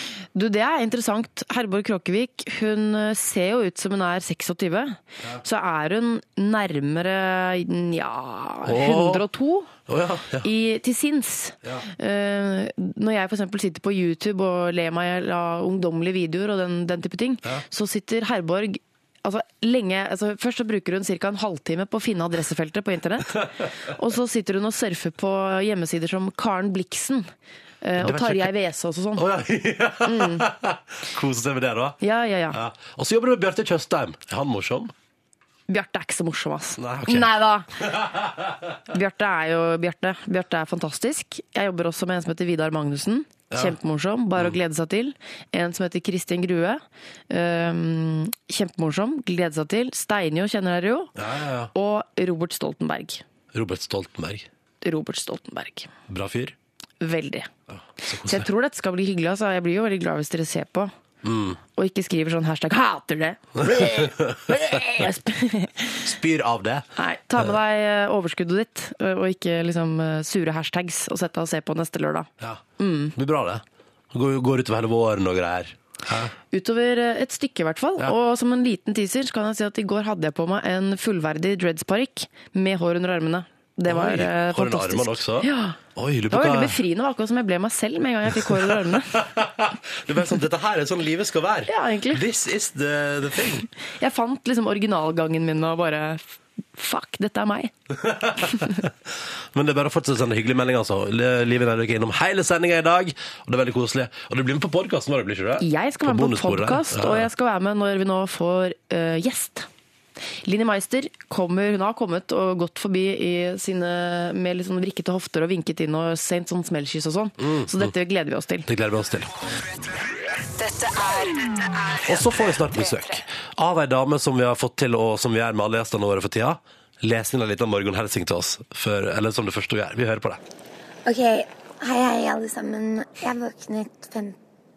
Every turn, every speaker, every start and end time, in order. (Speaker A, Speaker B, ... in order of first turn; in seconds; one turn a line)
Speaker A: 0.3-9.7
Speaker B: 8.7-9.2
Speaker B: 9.9-10.5
Speaker A: 10.4-27.3
Speaker B: 11.6-11.9
Speaker A: 27.8-29.2
Speaker B: 28.0-28.5
Speaker B: 29.2-32.0
Speaker A: 30.1-30.5
Speaker A: 32.0-32.6
Speaker B: 32.5-34.9
Speaker A: 35.7-37.7
Speaker B: 36.8-38.5
Speaker A: 38.9-51.1
Speaker B: 43.5-43.8
Speaker B: 51.2-51.7
Speaker A: 51.7-53.2
Speaker B: 53.5-54.5
Speaker A: 54.8-55.9
Speaker B: 56.1-56.5
Speaker A: 57.0-57.5
Speaker B: 57.7-58.5
Speaker A: 58.2-60.9
Speaker B: 61.2-61.6
Speaker A: 61.8-66.0
Speaker B: 63.6-65.1
Speaker B: 66.0-66.9
Speaker A: 67.0-73.2
Speaker B: 73.2-76.3
Speaker A: 76.5-85.8
Speaker B: 83.9-86.8
Speaker A: 86.3-89.2
Speaker B: 88.4-93.7
Speaker A: 91.7-92.2
Speaker A: 94.0-96.2
Speaker A: 96.7-97.7
Speaker B: 97.9-98.9
Speaker B: 99.5-107.3
Speaker A: 105.6-109.7
Speaker A: 110.4-118.7
Speaker B: 117.4-117.9
Speaker B: 118.7-119.3
Speaker C: 120.3-123.2
Speaker B: 122.0-130.4
Speaker D: 131.1-134.4